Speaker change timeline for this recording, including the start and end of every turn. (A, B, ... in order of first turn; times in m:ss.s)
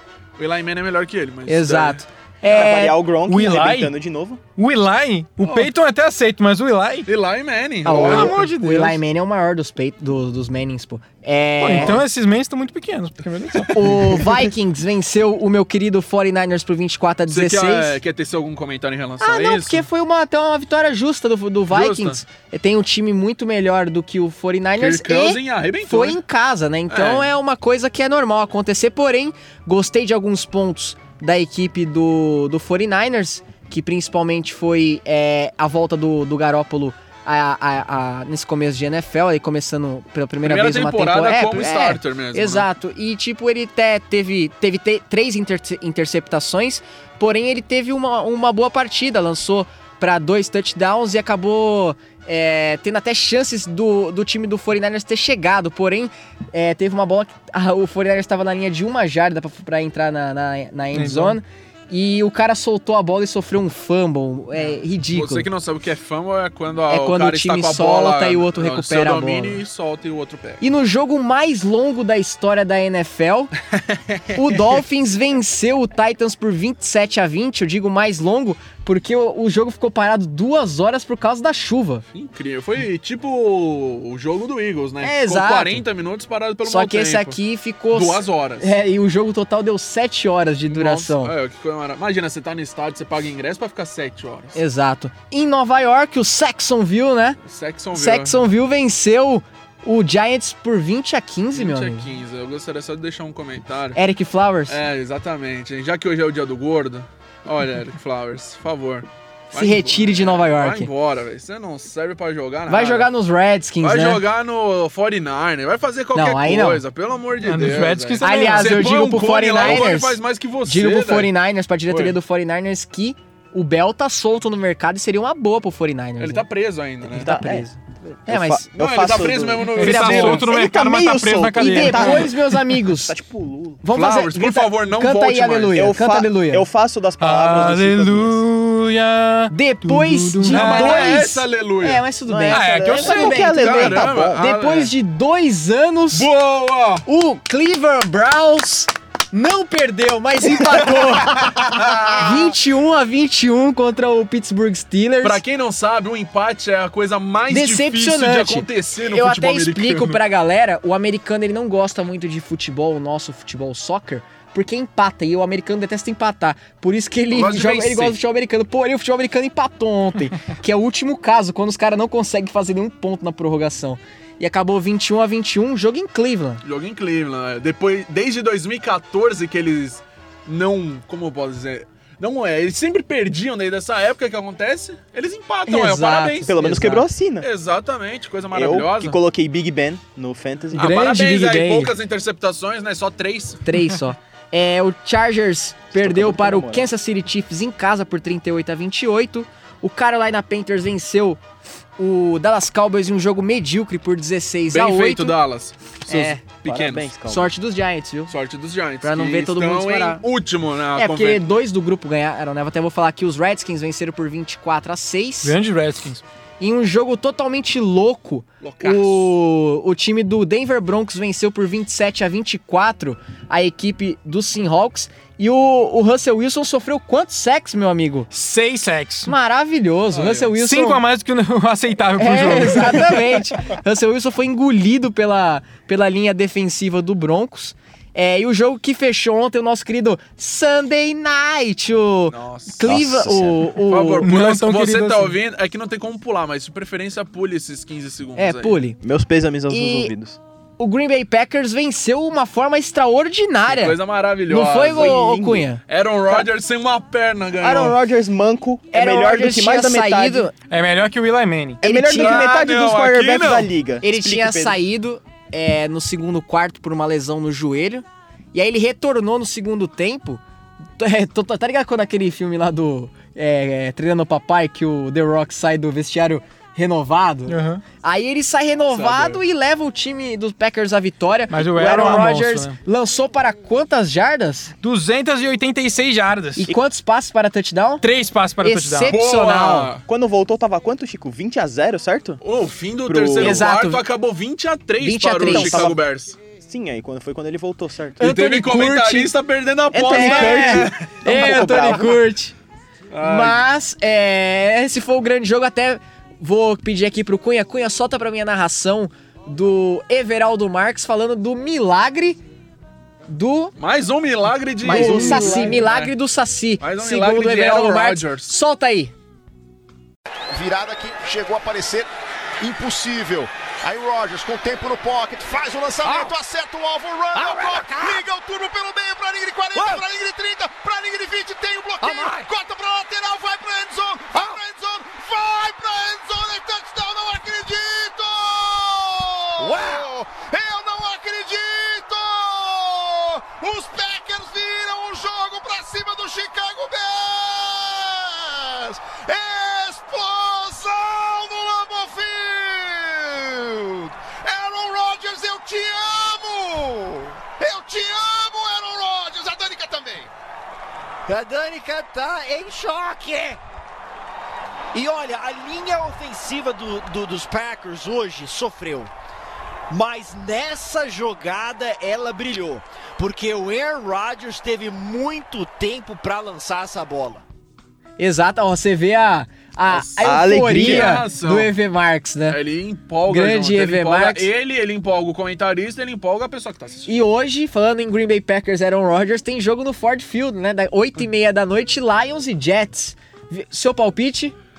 0:00.4-0:02.0 A
0:01.5-0:03.0 B
0:02.4-0:04.4 C
0:03.3-0:03.9 D
0:04.6-0:07.1 D
0:05.4-0:05.7 A
0:07.1-0:08.4 A
0:07.8-0:12.0 B
0:08.0-0:09.0 D
0:11.6-0:14.3 D
0:11.7-0:12.0 A
0:13.7-0:18.0 B
0:17.3-0:19.8 A
0:19.2-1:05.5 B
0:21.7-0:22.2 A
0:24.8-0:26.2 A
0:26.9-0:27.3 A
0:40.4-0:42.7 A
1:00.9-1:01.4 D
1:05.1-1:10.6 A
1:06.9-1:09.6 B
1:10.6-1:13.5 B
1:13.7-1:14.8 A
1:14.3-1:22.0 B
1:22.1-1:27.4 A
1:25.0-1:25.8 B
1:26.6-1:31.3 B
1:27.9-1:28.7 A
1:30.7-1:34.6 A
1:34.5-1:37.4 B
1:37.5-1:38.4 A
1:37.9-1:42.1 B
1:41.5-1:44.0 A
1:43.9-1:44.8 B
1:44.7-1:53.1 A
1:49.5-1:50.9 B
1:52.7-1:54.2 B
1:53.8-2:01.3 A
1:56.1-1:56.8 B
1:57.4-1:58.8 D
1:58.2-2:06.4 B
2:01.9-2:02.2 A
2:06.2-2:07.3 A
2:07.1-2:08.7 B
2:07.1-2:13.8 C
2:08.8-2:10.5 A
2:09.8-2:12.3 D
2:09.8-2:10.4 B
2:11.6-2:13.1 B
2:13.8-2:16.7 B
2:13.9-2:15.8 A
2:15.7-2:18.4 C
2:17.2-2:21.2 D
2:19.5-2:26.3 B
2:20.4-2:22.0 A
2:22.2-2:24.4 C
2:22.5-2:23.1 D
2:22.9-2:24.9 A
2:26.1-2:27.0 A
2:27.0-2:35.4 B
2:31.3-2:32.5 A
2:35.2-2:40.2 A
2:37.5-2:56.6 B
2:47.3-2:48.2 A
2:56.6-3:06.6 A
3:05.7-3:07.0 B
3:06.4-3:07.5 C
3:07.4-3:09.2 A
3:08.5-3:11.0 C
3:10.7-3:11.9 B
3:10.7-3:13.6 A
3:13.6-3:25.3 B
3:15.9-3:16.9 C
3:24.7-3:25.7 A
3:26.1-3:26.4 B
3:26.1-3:27.5 C
3:26.6-3:27.1 A
3:27.3-3:28.3 B
3:28.3-3:31.5 A
3:29.0-3:30.2 B
3:31.0-3:35.5 B
3:35.4-3:36.2 D
3:36.6-3:48.3 B
3:38.6-3:39.3 A
3:48.3-3:49.3 D
3:49.2-3:51.0 B
3:50.1-3:50.5 A
3:50.6-3:53.4 D
3:52.2-4:04.3 B
4:02.3-4:02.9 A
4:02.8-4:03.7 C
4:03.9-4:08.8 A
4:04.2-4:05.3 D
4:08.4-4:09.0 B
4:09.0-4:10.4 C
4:09.7-4:10.1 B
4:10.8-4:15.8 B
4:13.6-4:15.2 A
4:14.8-4:15.7 C
4:15.9-4:18.0 A
4:17.6-4:20.5 C
4:18.9-4:20.5 B
4:20.7-4:21.8 D
4:21.8-4:22.4 B
4:21.8-4:24.8 C
4:22.1-4:23.7 A
4:24.0-4:30.4 B
4:31.0-4:44.7 B
4:37.5-4:37.8 D
4:38.9-4:39.4 A
4:41.5-4:42.8 D
4:44.8-4:46.7 D
4:46.6-4:48.0 B
4:48.0-4:49.1 D
4:48.6-4:49.9 B
4:49.1-4:50.0 A
4:50.1-4:52.4 C
4:52.4-4:56.4 A
4:53.0-4:53.6 C
4:53.4-4:54.0 B
4:55.0-4:55.9 B
4:55.4-4:56.0 C
4:56.6-4:58.2 C
4:58.2-4:59.3 B
4:58.2-5:01.9 A
4:59.9-5:02.2 C
5:00.1-5:02.5 B
5:03.1-5:03.6 A
5:03.2-5:12.4 B
5:13.3-5:13.7 B
5:13.8-5:16.1 A
5:14.8-5:19.1 B
5:14.8-5:15.8 C
5:16.8-5:18.5 A
5:20.5-5:22.1 E
5:22.6-6:00.3 E
5:26.0-5:26.3 F
5:27.3-5:28.2 F
5:29.7-5:30.0 F
5:32.0-5:32.5 F
5:39.6-5:40.0 F
6:01.3-6:03.6 F
6:04.9-6:09.1 F
6:09.9-6:17.4 F
6:18.2-6:22.6 B
6:19.9-6:21.7 A
6:20.2-6:21.2 C
6:22.5-6:27.1 A
6:23.3-6:24.5 B
6:27.0-6:34.5 B